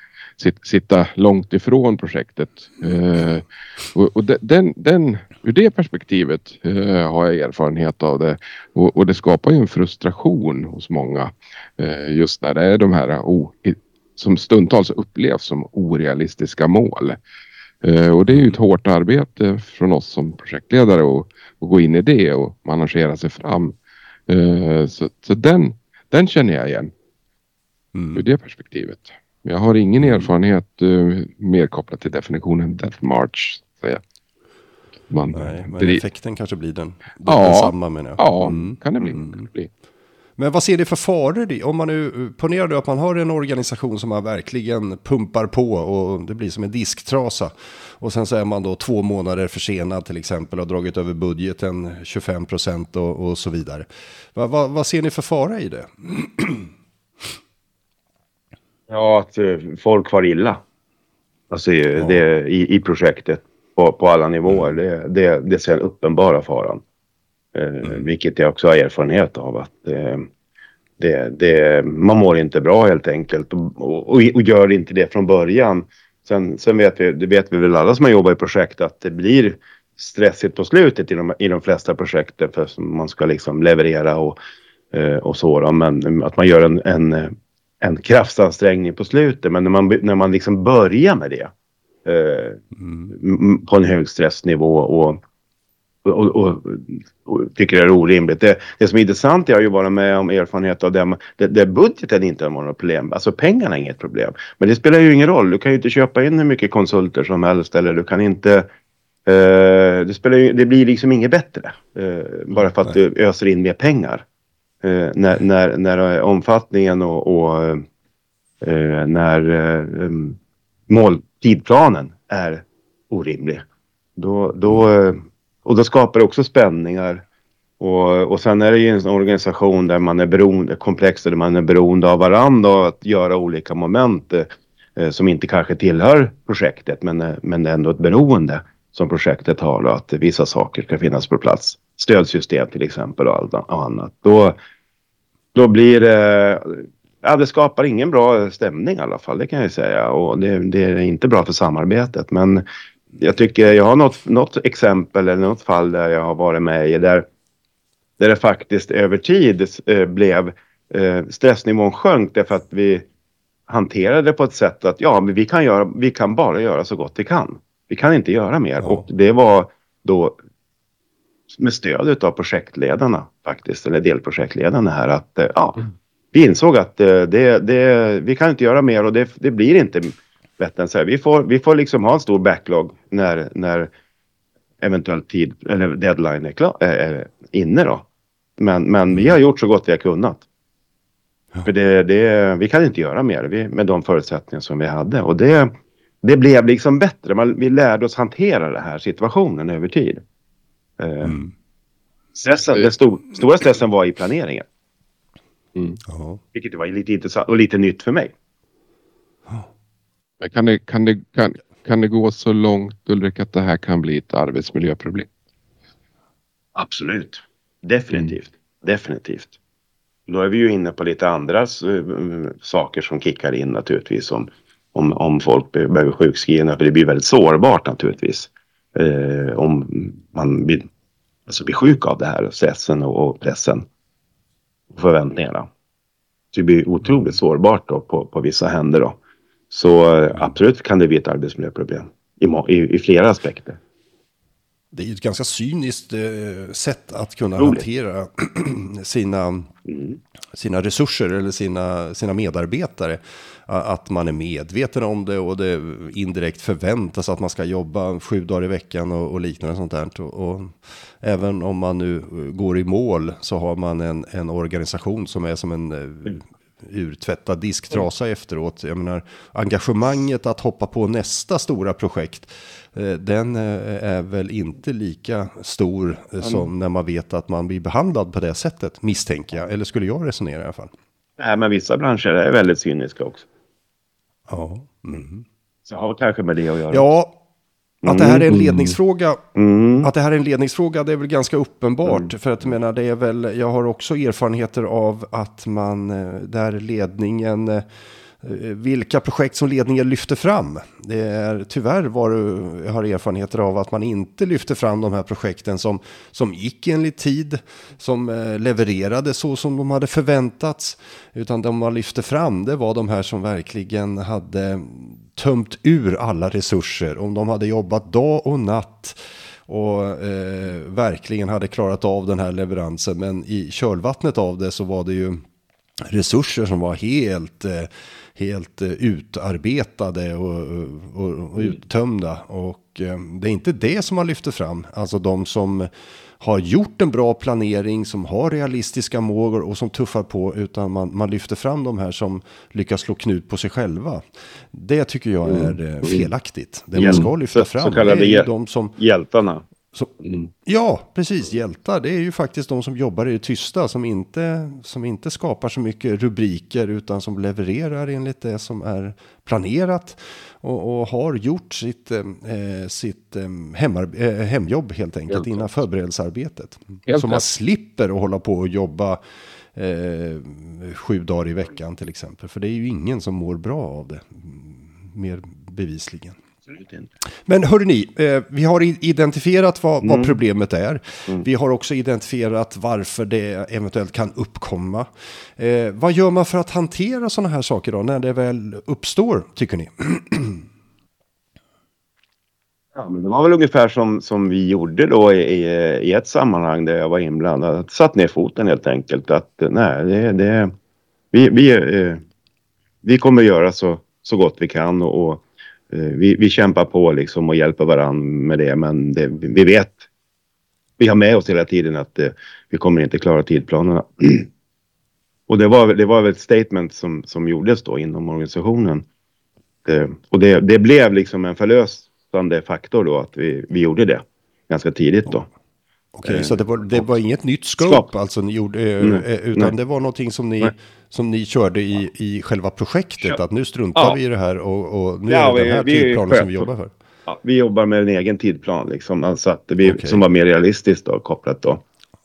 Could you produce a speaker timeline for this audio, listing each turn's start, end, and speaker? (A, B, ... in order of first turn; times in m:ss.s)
0:00.4-0:17.2 A
0:17.8-0:23.7 A
0:24.3-0:26.9 A
0:27.9-0:28.2 B
0:28.1-0:34.0 A
0:30.0-0:30.3 B
0:35.1-0:36.0 A
0:35.3-0:39.5 B
0:37.2-0:39.7 A
0:40.4-0:56.7 B
0:58.9-1:00.6 C
1:01.5-1:06.8 C
1:07.6-1:10.3 C
1:11.0-1:24.4 C
1:24.9-1:31.5 C
1:32.0-1:35.2 C
1:36.0-1:48.7 C
1:49.2-1:54.2 C
1:54.8-1:57.8 C
1:58.6-2:00.4 C
2:00.9-2:03.6 C
2:04.2-2:07.2 C
2:07.8-2:24.6 C
2:25.6-2:32.6 C
2:33.2-2:37.2 C
2:38.2-2:43.0 C
2:43.7-2:50.4 C
2:51.5-2:55.8 C
2:56.3-3:03.9 C
3:04.8-3:08.1 C
3:08.6-3:10.4 C
3:11.7-3:15.7 C
3:16.2-3:20.2 C
3:21.0-3:21.4 C
3:21.2-3:21.5 B
3:22.3-3:24.7 C
3:25.7-3:26.0 A
3:26.1-3:26.4 B
3:26.5-3:28.3 C
3:30.4-3:35.3 A
3:36.8-3:39.5 C
3:40.3-3:50.9 C
3:51.5-3:53.8 C
3:54.9-3:55.7 C
3:56.5-3:59.2 C
3:59.7-4:03.8 C
4:04.9-4:09.7 B
4:07.6-4:07.8 C
4:09.9-4:10.2 C
4:10.5-4:40.9 B
4:41.4-4:43.4 C
4:44.5-4:45.4 B
4:45.9-4:47.1 C
4:46.9-4:47.4 B
4:48.0-4:48.4 C
4:48.0-4:49.4 B
4:48.5-4:49.0 A
4:49.6-4:50.1 C
4:50.0-4:57.8 B
4:58.4-5:25.4 B
5:26.1-5:48.9 B
5:45.5-5:46.3 A
5:47.0-5:49.6 C
5:50.7-6:09.2 B
6:05.3-6:05.6 A
6:07.1-6:07.4 A
6:09.7-6:16.3 B
6:16.7-6:17.1 C
6:17.4-6:30.6 B
6:20.0-6:20.4 C
6:32.9-6:40.7 C
6:41.3-6:42.2 C
6:43.0-6:50.0 C
6:51.0-6:54.5 C
6:55.5-6:59.0 C
6:59.8-7:05.5 C
7:06.1-7:16.9 B
7:06.2-7:07.1 C
7:07.8-7:08.1 C
7:09.0-7:09.7 C
7:15.3-7:16.7 C
7:17.3-7:21.8 C
7:19.8-7:20.2 B